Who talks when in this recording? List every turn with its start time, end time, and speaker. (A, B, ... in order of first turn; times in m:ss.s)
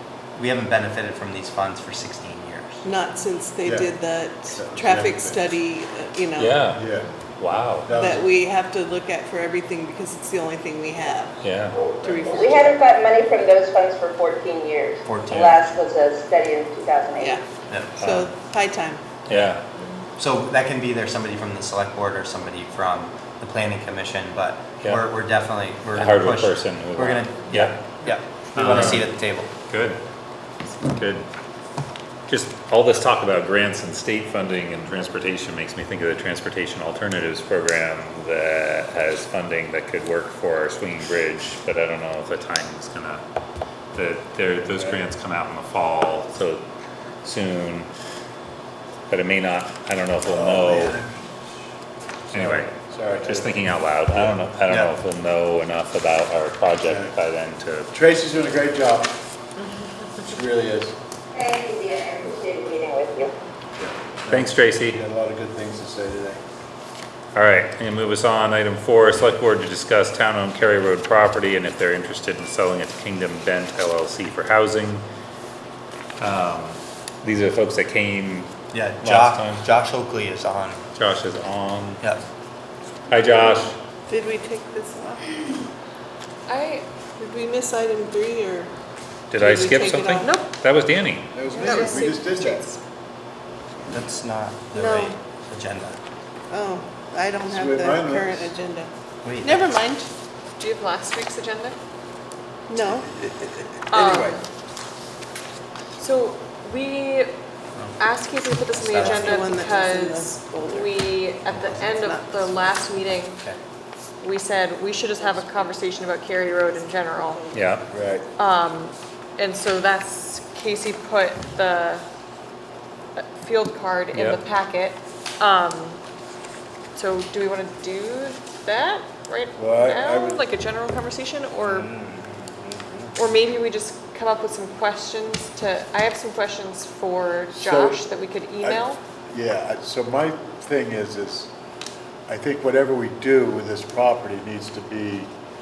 0:00.4-0:02.8 A
0:02.8-0:06.6 B
0:03.6-0:03.9 C
0:04.6-0:05.4 C
0:06.4-0:06.8 D
0:06.7-0:07.1 C
0:07.4-0:07.9 D
0:07.8-0:08.2 C
0:08.0-0:11.4 B
0:11.4-0:11.8 D
0:11.9-0:12.9 B
0:12.3-0:17.4 E
0:15.1-0:15.4 A
0:18.0-0:18.3 D
0:18.0-0:19.0 B
0:19.3-0:19.6 D
0:20.2-0:29.5 A
0:26.0-0:28.0 D
0:28.5-0:29.1 D
0:29.7-0:30.0 D
0:30.8-0:31.2 D
0:32.3-0:43.2 D
0:43.9-0:46.6 D
0:44.7-0:45.1 C
0:47.2-0:47.9 D
0:49.1-0:51.0 D
0:50.3-0:51.2 C
0:52.3-0:54.2 C
0:52.3-0:57.9 D
0:54.7-0:54.9 A
0:56.8-0:57.1 C
0:57.9-0:59.1 C
1:00.2-1:01.0 C
1:01.3-1:03.3 E
1:03.8-1:06.4 C
1:04.3-1:05.0 D
1:07.4-1:15.0 D
1:16.2-1:18.5 D
1:18.7-1:20.8 A
1:19.0-1:19.6 D
1:21.0-1:22.0 D
1:23.1-1:23.8 D
1:24.1-1:25.4 B
1:26.5-1:26.8 F
1:27.2-1:28.7 B
1:29.3-1:31.4 D
1:29.4-1:30.3 B
1:30.2-1:30.5 F
1:31.3-1:32.7 C
1:31.5-1:32.8 F
1:33.9-1:36.0 A
1:34.8-1:35.2 B
1:36.5-1:40.1 B
1:37.4-1:38.5 C
1:39.2-1:39.6 A
1:40.6-1:41.8 F
1:42.7-1:43.1 B
1:43.2-1:44.4 A
1:43.9-1:44.4 F
1:46.0-1:47.3 F
1:48.0-1:53.4 F
1:48.7-1:49.4 A
1:48.9-1:50.9 B
1:51.5-1:51.9 A
1:51.9-1:53.0 B
1:54.2-1:57.4 F
1:55.2-1:55.8 B
1:56.3-1:57.6 B
1:57.5-1:57.9 D
1:57.9-1:58.2 C
1:58.4-2:02.0 F
2:03.2-2:06.0 F
2:04.1-2:04.4 D
2:07.0-2:11.9 F
2:09.6-2:10.4 C
2:11.6-2:13.2 C
2:13.2-2:19.0 F
2:17.6-2:18.1 C
2:18.6-2:21.5 C
2:22.3-2:25.3 C